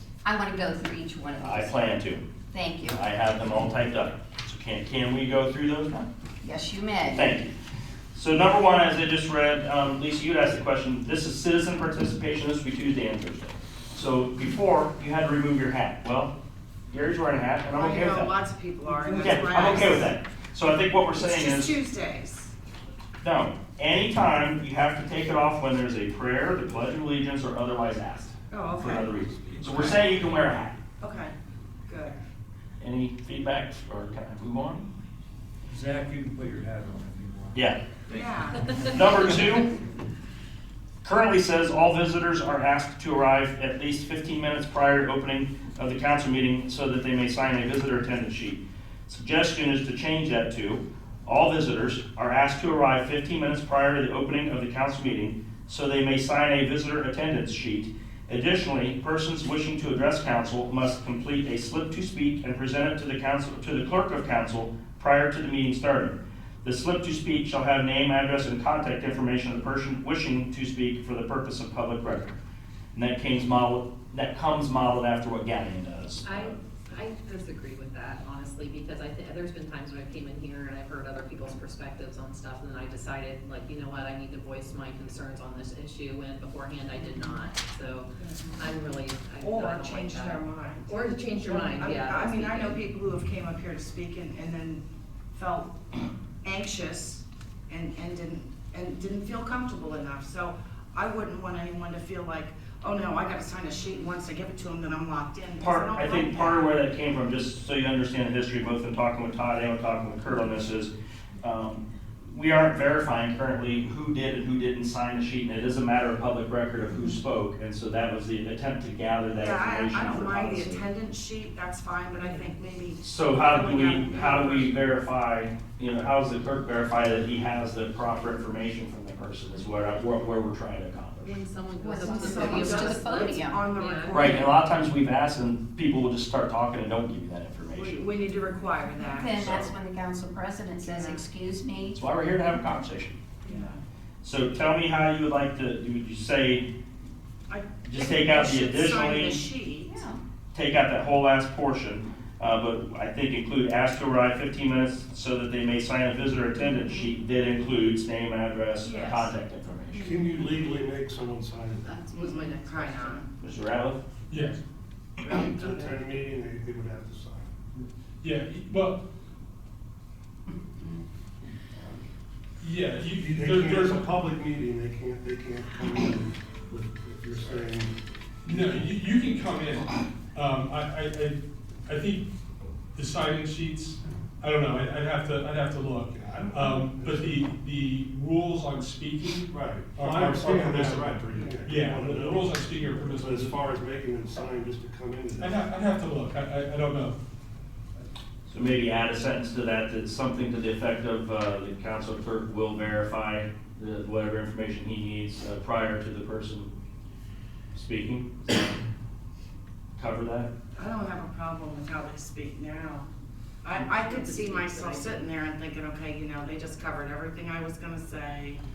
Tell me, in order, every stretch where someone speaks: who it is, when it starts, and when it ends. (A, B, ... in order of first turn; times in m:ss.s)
0:00.2-0:01.8 A
0:01.4-0:02.2 B
0:02.5-0:03.0 A
0:02.9-0:06.1 B
0:06.4-0:07.3 A
0:07.1-0:07.5 B
0:08.1-0:16.3 B
0:16.9-0:18.3 B
0:17.7-0:20.1 C
0:19.0-0:21.8 B
0:21.1-0:22.5 C
0:23.2-0:30.8 B
0:28.5-0:29.1 C
0:29.7-0:30.0 C
0:31.0-0:31.3 C
0:31.8-0:32.2 C
0:32.8-0:34.9 B
0:35.7-0:37.6 D
0:37.5-0:37.8 B
0:38.1-0:38.8 D
0:38.1-0:39.0 C
0:38.8-0:39.7 B
0:41.0-1:12.4 B
1:12.9-1:16.6 B
1:16.2-1:32.8 E
1:26.9-1:27.4 C
1:28.2-1:28.8 C
1:29.4-1:46.7 C
1:45.6-2:00.8 B
1:59.4-2:04.8 C
2:03.0-2:11.4 B
2:11.2-2:14.3 E
2:11.8-2:13.6 A
2:12.1-2:14.5 C
2:14.1-2:18.1 B
2:17.7-2:19.7 C
2:19.0-2:22.0 A
2:20.8-2:21.2 C
2:21.9-2:23.2 B
2:23.4-2:23.8 C
2:24.2-2:26.7 B
2:27.5-2:30.0 C
2:27.8-2:29.4 B
2:29.8-2:30.2 A
2:30.5-2:40.2 B
2:38.8-2:39.3 C
2:39.9-2:40.2 C
2:39.9-2:42.0 F
2:42.1-2:43.3 C
2:43.4-2:44.0 B
2:44.3-2:44.6 G
2:45.2-2:47.5 F
2:45.4-2:45.7 C
2:48.2-2:49.0 G
2:52.6-2:54.1 G
2:53.1-2:57.9 F
2:58.4-3:02.3 G
2:58.5-2:58.9 F
3:02.9-3:13.7 G
3:06.1-3:07.5 F
3:09.5-3:15.7 F
3:15.4-3:17.2 G
3:18.5-3:26.7 B
3:27.7-3:28.7 B
3:30.0-3:30.5 B
3:30.7-3:33.0 C
3:33.6-3:38.6 C
3:34.1-3:34.9 E